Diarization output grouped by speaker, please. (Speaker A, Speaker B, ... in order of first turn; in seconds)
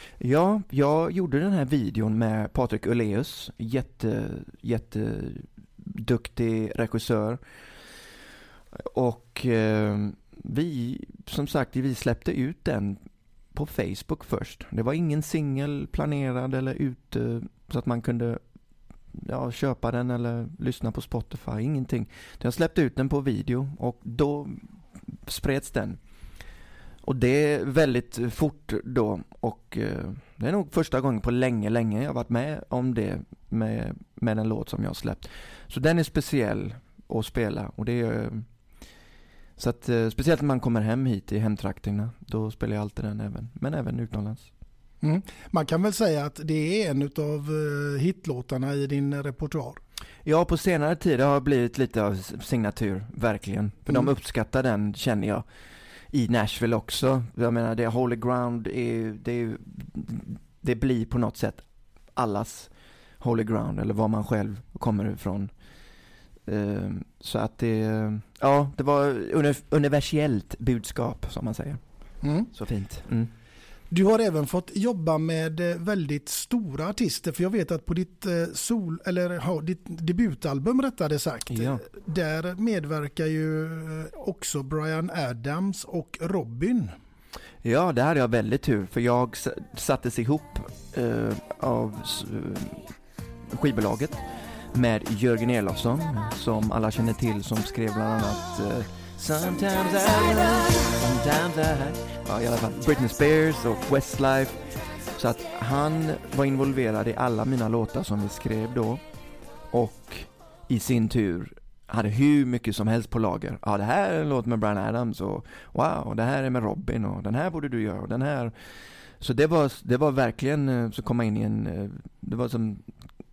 Speaker A: 0.2-7.4, 8.9-13.0, 13.5-18.4, 19.1-24.7, 25.3-26.0, 27.0-38.5, 39.6-44.5, 50.2-55.4, 56.1-61.6, 62.1-62.7, 63.2-65.5, 66.5-71.8, 72.5-73.3, 81.5-81.8, 87.6-92.8, 93.5-94.2, 94.7-104.6, 105.2-109.0, 109.7-118.5, 119.2-122.9
Speaker B: 45.0-49.8, 72.2-72.5, 73.9-86.9